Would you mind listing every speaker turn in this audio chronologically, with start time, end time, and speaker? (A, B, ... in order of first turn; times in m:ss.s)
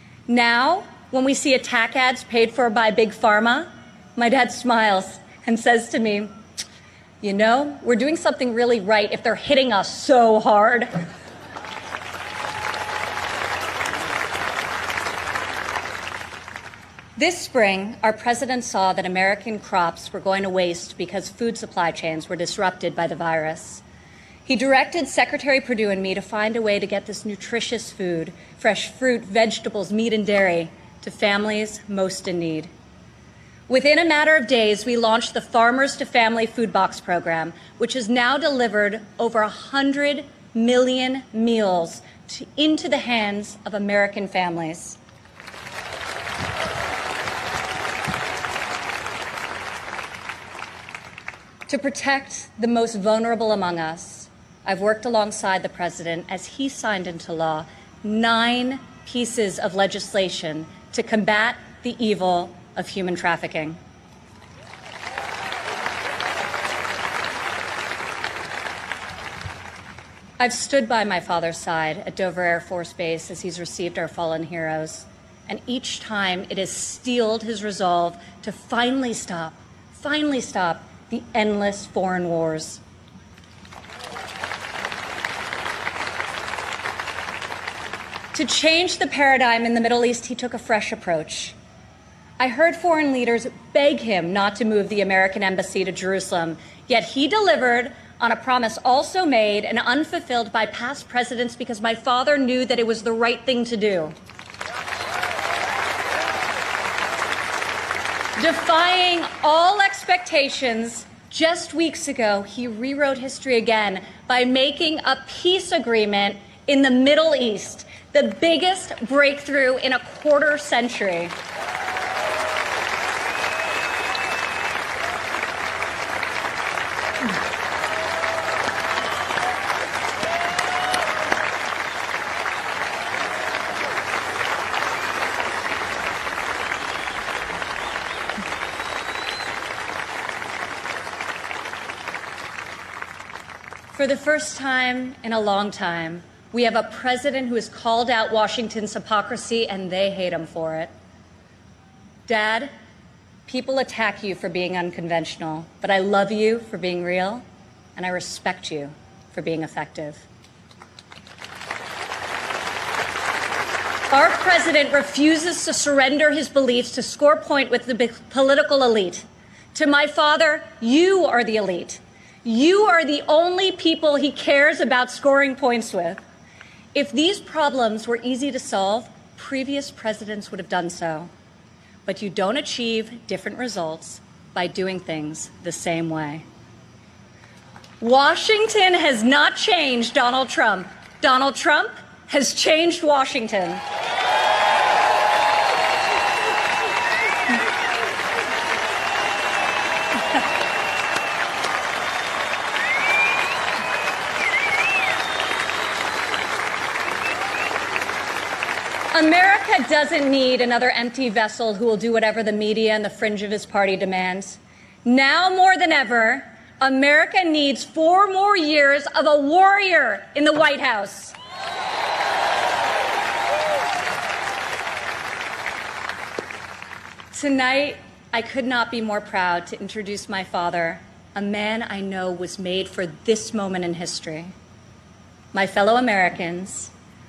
0:00.3-0:06.3 A
0:07.2-0:11.0 A
0:17.2-0:23.8 A
0:24.4-0:32.7 A
0:33.7-0:45.0 A
0:51.7-1:03.8 A
1:10.4-1:22.8 A
1:28.3-1:31.6 A
1:32.4-1:44.1 A
1:48.4-2:01.3 A
2:23.9-2:30.9 A
2:32.3-2:32.7 A
2:33.4-2:37.4 A
2:38.0-2:40.2 A
2:44.1-2:56.2 A
2:56.9-3:01.3 A
3:02.0-3:06.4 A
3:08.0-3:13.8 A
3:29.1-3:41.4 A
3:47.3-3:54.5 A
3:55.5-3:56.9 A